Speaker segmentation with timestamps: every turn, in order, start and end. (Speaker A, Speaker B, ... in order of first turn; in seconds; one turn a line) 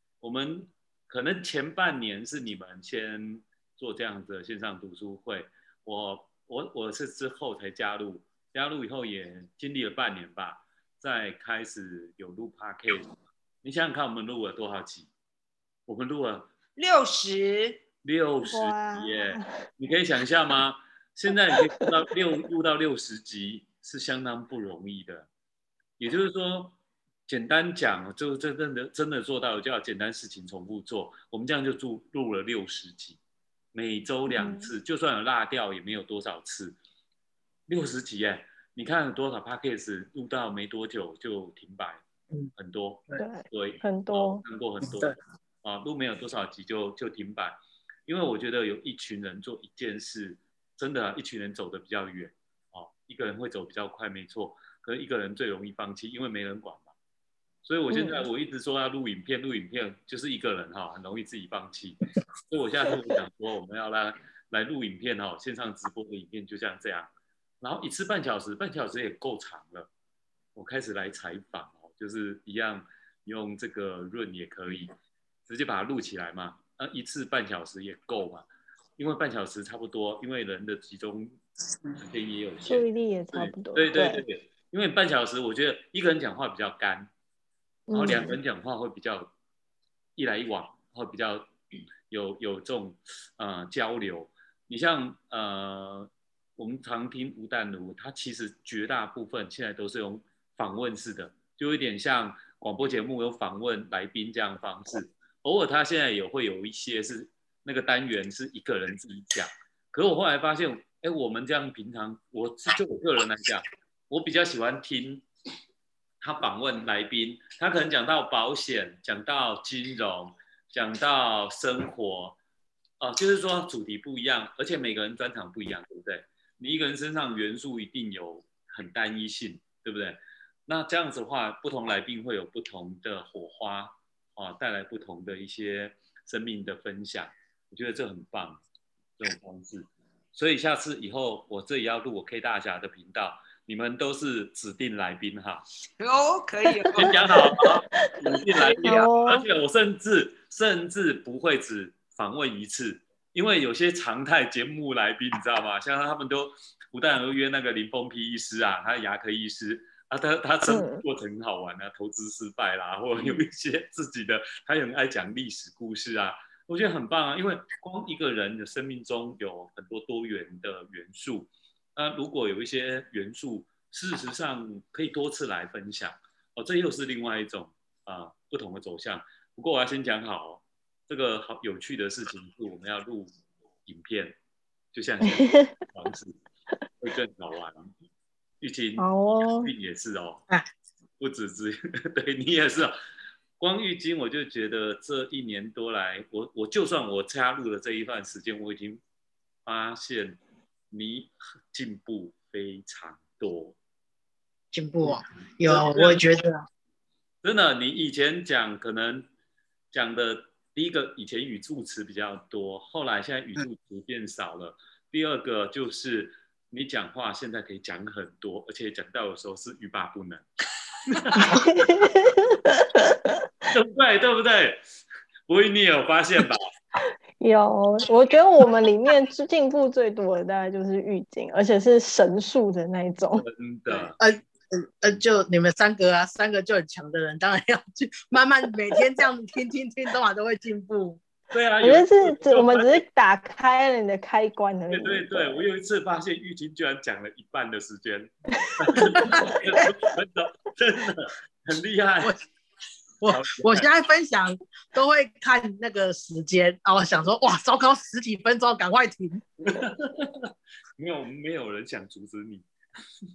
Speaker A: 0.2-13.1
Speaker A: 13.6-15.1
Speaker A: 15.9-16.5
Speaker B: 16.8-17.8
Speaker A: 18.0-25.3
Speaker C: 18.5-19.6
Speaker C: 21.5-21.9
Speaker A: 26.0-26.8
Speaker A: 27.3-33.2
Speaker A: 33.7-36.8
Speaker C: 34.3-34.7
Speaker A: 37.7-42.0
Speaker A: 42.5-56.9
Speaker C: 43.2-44.4
Speaker D: 44.9-45.1
Speaker A: 57.6-69.9
Speaker C: 57.9-58.3
Speaker A: 70.5-74.9
Speaker A: 75.5-78.5
Speaker A: 79.0-81.4
Speaker A: 81.9-87.1
Speaker C: 82.7-84.2
Speaker C: 87.9-88.3
Speaker A: 87.9-89.3
Speaker A: 90.2-91.5
Speaker A: 92.1-115.2
Speaker A: 116.2-122.4
Speaker A: 123.0-138.6
Speaker A: 139.2-145.6
Speaker B: 146.0-147.4
Speaker A: 146.9-183.3
Speaker C: 148.0-149.4
Speaker C: 160.7-161.0
Speaker A: 183.8-184.4
Speaker A: 184.9-186.3
Speaker C: 185.3-185.8
Speaker A: 187.0-187.9
Speaker A: 188.6-189.1
Speaker C: 189.0-189.7
Speaker A: 189.6-190.4
Speaker A: 191.2-192.9
Speaker A: 193.6-199.0
Speaker A: 199.6-200.4
Speaker A: 200.9-203.8
Speaker D: 204.7-206.6
Speaker A: 205.6-206.2
Speaker A: 207.4-209.3
Speaker A: 209.9-220.4
Speaker A: 221.0-221.9
Speaker C: 221.4-223.3
Speaker A: 223.7-224.8
Speaker A: 225.5-226.6
Speaker C: 227.4-233.4
Speaker A: 233.3-234.2
Speaker D: 234.2-241.2
Speaker A: 241.5-243.0
Speaker C: 241.8-245.6
Speaker A: 244.9-252.4
Speaker D: 253.2-259.4
Speaker A: 253.2-253.9
Speaker A: 259.6-262.7